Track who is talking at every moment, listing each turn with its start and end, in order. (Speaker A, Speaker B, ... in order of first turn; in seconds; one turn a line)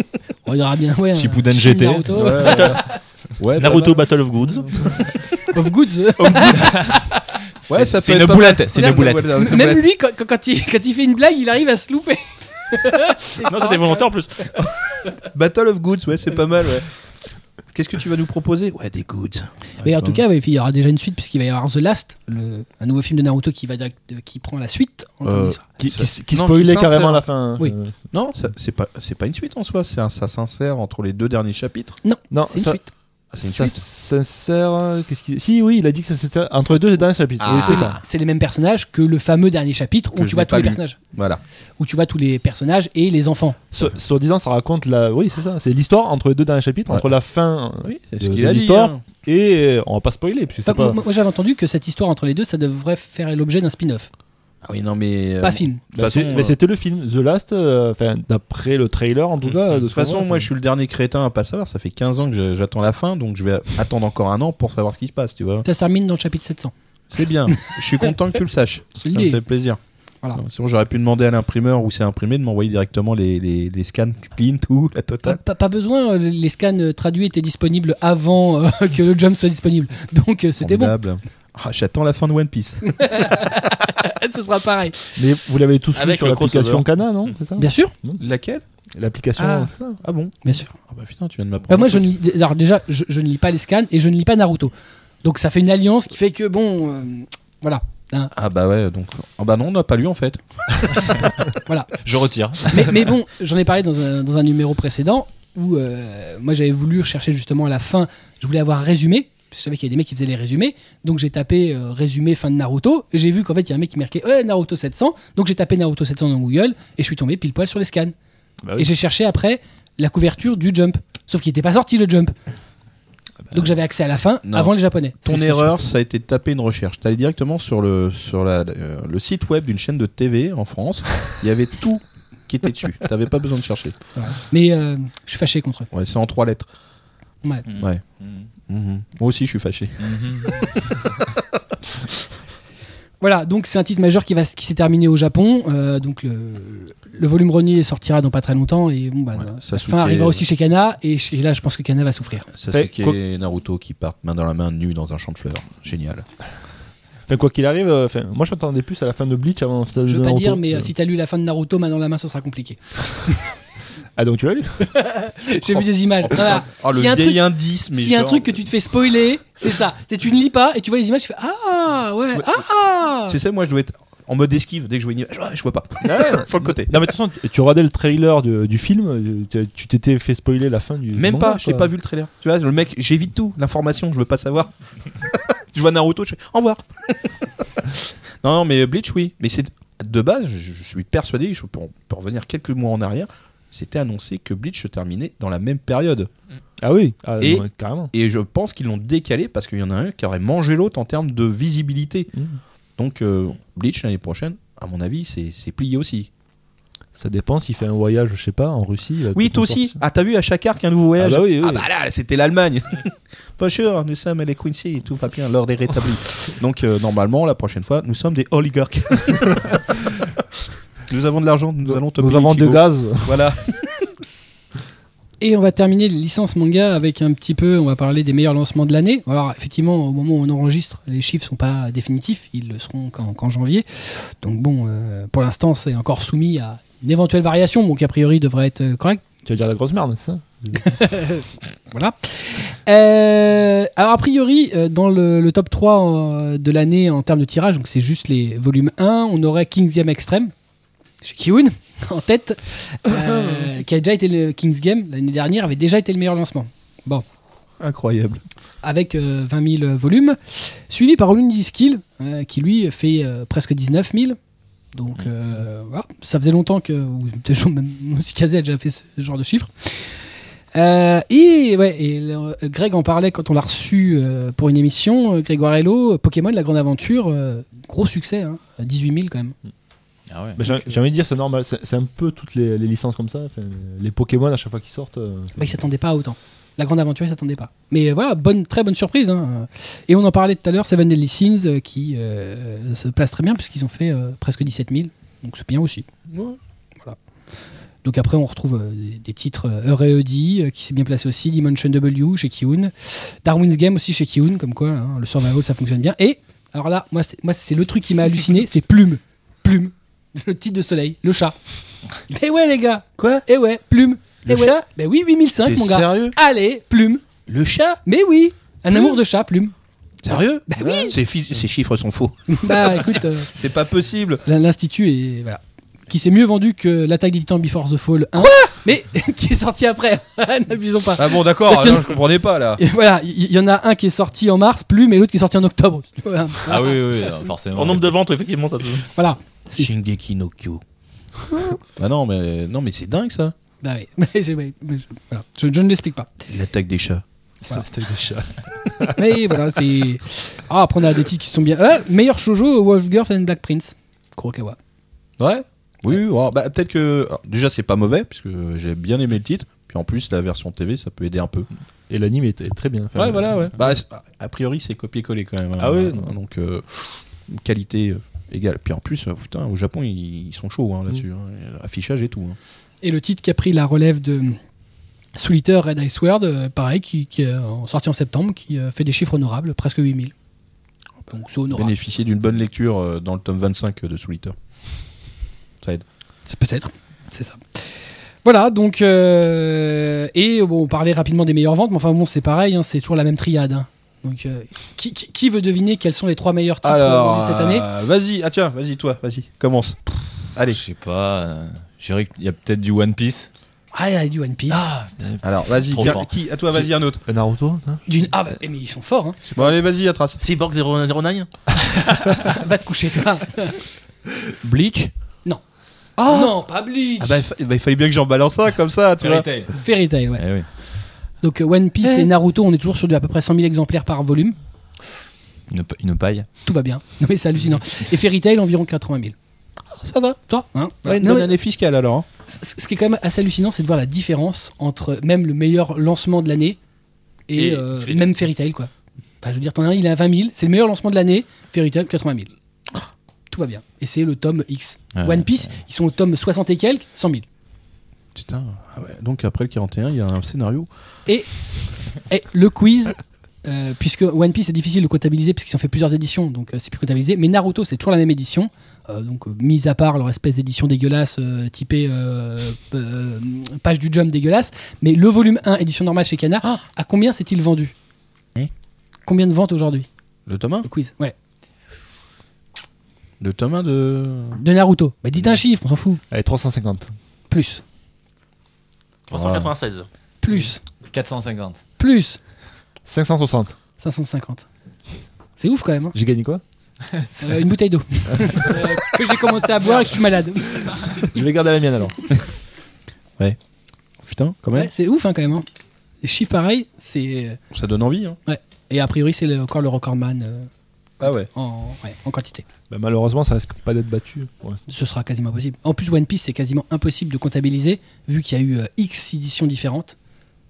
Speaker A: 0.4-3.0
Speaker B: 1.1-2.4
Speaker C: 2.1-2.8
Speaker D: 2.4-2.8
Speaker C: 3.4-4.1
Speaker D: 3.6-4.8
Speaker C: 4.7-5.0
Speaker A: 5.4-7.2
Speaker C: 6.2-6.6
Speaker B: 6.5-7.0
Speaker C: 7.7-9.8
Speaker B: 7.8-9.3
Speaker A: 9.2-14.0
Speaker D: 13.4-14.5
Speaker C: 15.3-16.9
Speaker C: 17.7-20.2
Speaker A: 19.8-25.6
Speaker C: 25.2-27.2
Speaker E: 25.8-27.9
Speaker C: 28.1-32.0
Speaker A: 32.0-32.9
Speaker E: 32.3-32.8
Speaker C: 33.3-33.8
Speaker E: 33.4-38.0
Speaker C: 37.4-38.0
Speaker A: 37.5-41.0
Speaker C: 40.1-41.4
Speaker A: 41.8-43.6
Speaker E: 43.7-51.0
Speaker C: 47.8-49.0
Speaker A: 50.6-54.1
Speaker C: 54.6-56.5
Speaker A: 55.4-55.8
Speaker E: 55.9-60.5
Speaker C: 59.9-65.6
Speaker A: 65.6-66.7
Speaker C: 67.1-69.8
Speaker A: 67.5-68.1
Speaker A: 69.0-69.4
Speaker C: 70.3-75.4
Speaker A: 75.2-81.0
Speaker C: 80.6-83.4
Speaker A: 82.8-85.2
Speaker E: 85.2-88.2
Speaker D: 85.9-87.3
Speaker A: 87.6-87.9
Speaker C: 88.2-88.6
Speaker E: 89.0-90.0
Speaker C: 89.3-92.1
Speaker A: 90.4-90.7
Speaker A: 91.7-94.7
Speaker A: 95.2-98.3
Speaker C: 98.3-101.3
Speaker A: 101.6-101.9
Speaker B: 102.0-103.1
Speaker A: 102.7-118.1
Speaker E: 118.6-118.9
Speaker A: 118.8-122.3
Speaker A: 123.5-125.8
Speaker C: 124.4-133.9
Speaker A: 134.1-135.9
Speaker C: 135.9-136.7
Speaker B: 137.7-138.4
Speaker C: 137.7-138.0
Speaker C: 138.7-140.7
Speaker B: 140.0-141.1
Speaker A: 143.2-152.5
Speaker C: 149.3-150.4
Speaker C: 152.5-156.2
Speaker E: 152.7-153.2
Speaker E: 157.3-160.9
Speaker A: 160.1-163.5
Speaker E: 164.1-164.9
Speaker A: 164.8-173.4
Speaker C: 165.7-168.6
Speaker C: 172.3-172.6
Speaker C: 173.3-177.1
Speaker E: 176.0-181.9
Speaker C: 181.1-196.3
Speaker E: 196.8-198.1
Speaker C: 197.4-202.3
Speaker E: 202.3-202.6
Speaker C: 203.0-206.3
Speaker E: 207.2-209.9
Speaker C: 209.3-220.4
Speaker E: 211.2-211.8
Speaker C: 221.1-224.1
Speaker E: 221.9-223.4
Speaker A: 225.4-239.2
Speaker E: 239.4-240.9
Speaker A: 240.7-250.5
Speaker A: 251.2-257.2
Speaker C: 253.1-253.7
Speaker C: 257.8-258.4
Speaker A: 258.8-264.4
Speaker A: 264.9-270.2
Speaker A: 270.7-279.5
Speaker B: 280.3-280.6
Speaker E: 280.6-285.6
Speaker A: 280.6-281.0
Speaker A: 285.6-296.1
Speaker C: 296.3-296.6
Speaker A: 298.0-311.6
Speaker A: 312.3-317.2
Speaker C: 313.2-313.4
Speaker C: 314.4-314.8
Speaker C: 315.6-316.4
Speaker C: 317.5-318.0
Speaker A: 318.1-319.7
Speaker C: 318.9-319.1
Speaker C: 320.2-324.4
Speaker A: 320.3-321.2
Speaker A: 322.5-323.5
Speaker A: 324.4-332.1
Speaker C: 331.2-332.8
Speaker A: 332.8-337.2
Speaker B: 336.6-338.1
Speaker D: 337.7-339.1
Speaker A: 339.1-339.9
Speaker C: 339.7-340.8
Speaker C: 341.9-343.5
Speaker A: 343.8-346.4
Speaker C: 346.5-347.2
Speaker E: 347.7-349.2
Speaker A: 349.1-354.8
Speaker C: 355.4-361.7
Speaker E: 362.1-363.9
Speaker C: 363.1-372.6
Speaker E: 365.8-366.3
Speaker A: 373.0-374.6
Speaker A: 375.3-380.3
Speaker A: 381.3-381.9
Speaker C: 381.7-384.5
Speaker A: 386.4-397.9
Speaker C: 396.8-400.8
Speaker B: 400.7-403.5
Speaker A: 403.9-404.9
Speaker B: 404.7-406.3
Speaker C: 405.4-407.2
Speaker E: 407.2-408.0
Speaker A: 408.1-409.4
Speaker C: 409.5-410.4
Speaker D: 410.4-411.5
Speaker A: 412.4-413.8
Speaker C: 414.6-415.1
Speaker C: 416.2-416.5
Speaker A: 416.2-417.4
Speaker C: 417.2-419.5
Speaker B: 419.2-419.7
Speaker A: 419.8-420.4
Speaker B: 420.4-420.7
Speaker A: 421.4-424.5
Speaker B: 425.7-426.5
Speaker A: 426.6-429.3
Speaker C: 429.9-430.4
Speaker A: 430.5-431.5
Speaker C: 431.0-432.2
Speaker A: 432.5-436.8
Speaker A: 437.5-438.9
Speaker D: 437.6-438.3
Speaker A: 439.4-442.5
Speaker A: 443.5-447.4
Speaker B: 445.1-445.7
Speaker C: 448.3-450.9
Speaker A: 452.2-467.9
Speaker A: 469.2-470.1
Speaker C: 470.5-470.9
Speaker A: 470.8-471.3
Speaker C: 473.4-474.6
Speaker A: 474.6-476.2
Speaker E: 476.3-477.1
Speaker A: 477.5-477.8
Speaker D: 479.3-480.1
Speaker C: 479.3-479.7
Speaker A: 480.4-480.8
Speaker B: 480.6-481.8
Speaker A: 482.0-482.4
Speaker E: 483.1-483.8
Speaker A: 484.0-484.6
Speaker A: 485.6-486.1
Speaker E: 486.1-486.6
Speaker A: 487.4-491.3
Speaker E: 491.2-492.3
Speaker C: 494.2-494.9
Speaker A: 494.7-495.6
Speaker A: 496.2-497.6
Speaker C: 497.7-498.4
Speaker A: 498.4-500.7
Speaker C: 501.2-501.5
Speaker A: 501.5-502.6
Speaker E: 502.9-504.8
Speaker A: 504.9-510.1